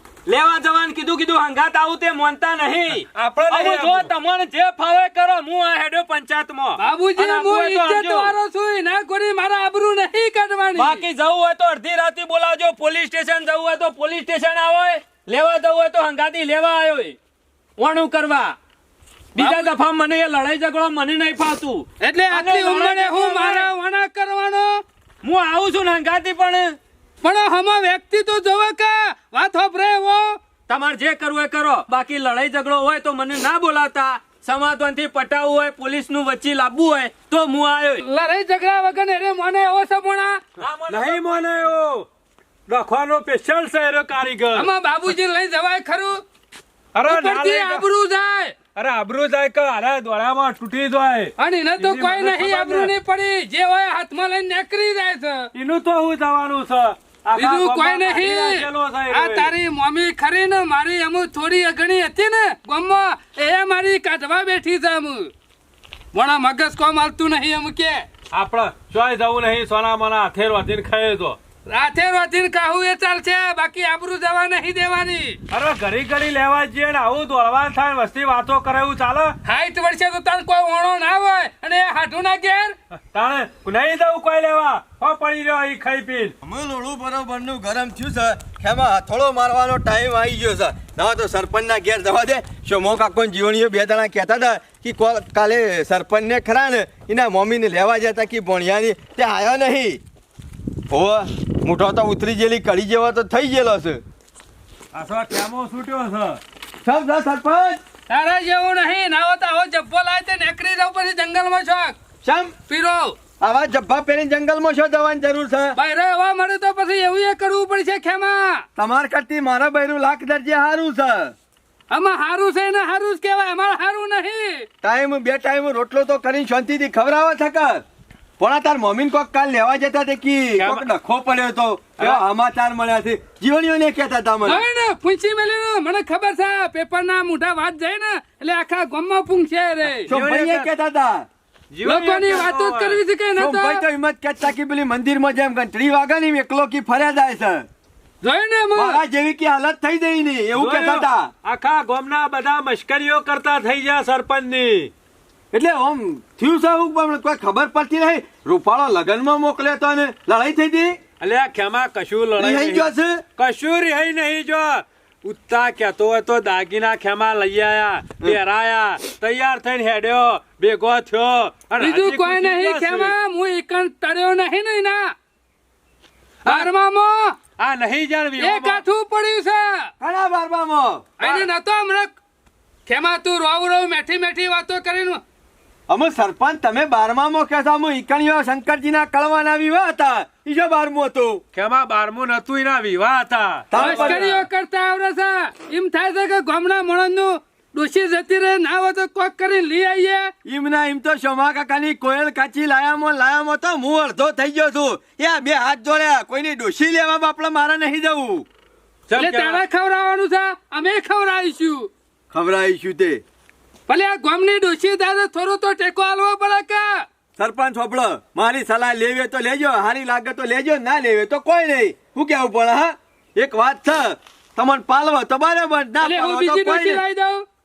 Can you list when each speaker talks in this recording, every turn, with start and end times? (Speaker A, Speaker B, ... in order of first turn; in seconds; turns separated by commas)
Speaker A: 0.2-8.3, Speaker B: 3.0-4.1, Speaker C: 6.8-11.0, Speaker A: 10.8-17.2, Speaker A: 17.8-18.6, Speaker A: 19.3-23.7, Speaker C: 19.4-19.7, Speaker C: 22.0-24.8, Speaker A: 25.2-26.8, Speaker C: 27.2-30.4, Speaker A: 30.7-38.0, Speaker C: 38.0-40.4, Speaker A: 40.6-41.2, Speaker B: 40.6-42.1, Speaker B: 42.7-44.7, Speaker C: 44.5-46.2, Speaker B: 46.9-47.8, Speaker C: 47.1-48.6, Speaker B: 48.7-52.9, Speaker C: 51.4-55.5, Speaker B: 55.5-59.5, Speaker C: 57.3-65.3, Speaker C: 66.1-68.1, Speaker B: 68.3-71.4, Speaker C: 71.7-75.4, Speaker B: 75.5-79.3, Speaker C: 79.4-82.8, Speaker B: 83.1-86.3, Speaker D: 86.4-100.0, Speaker D: 100.9-104.0, Speaker B: 104.9-106.4, Speaker D: 106.8-107.8, Speaker C: 108.1-112.0, Speaker D: 112.2-112.5, Speaker C: 112.7-113.2, Speaker D: 113.4-115.8, Speaker C: 115.8-118.6, Speaker D: 118.8-121.3, Speaker C: 121.9-124.7, Speaker D: 124.8-127.8, Speaker D: 128.4-134.6, Speaker B: 130.6-130.9, Speaker C: 134.4-140.1, Speaker B: 140.0-140.7, Speaker D: 140.1-141.3, Speaker B: 141.7-143.0, Speaker C: 141.8-143.8, Speaker D: 143.4-147.7, Speaker C: 148.2-149.0, Speaker D: 148.7-151.3, Speaker B: 150.5-154.9, Speaker D: 155.5-161.0, Speaker B: 161.2-173.1, Speaker D: 162.4-163.2, Speaker C: 171.8-175.1, Speaker B: 176.4-176.7, Speaker C: 176.4-177.4, Speaker B: 177.6-178.8, Speaker C: 178.4-179.9, Speaker D: 180.0-181.1, Speaker C: 181.2-182.1, Speaker B: 181.2-181.5, Speaker C: 182.8-185.2, Speaker D: 185.9-191.4, Speaker B: 191.5-194.5, Speaker D: 193.7-194.2, Speaker C: 193.7-200.3, Speaker D: 200.4-208.4, Speaker B: 209.1-209.6, Speaker C: 209.2-211.9, Speaker D: 212.3-213.2, Speaker C: 213.9-217.0, Speaker D: 217.4-227.0, Speaker C: 226.0-227.4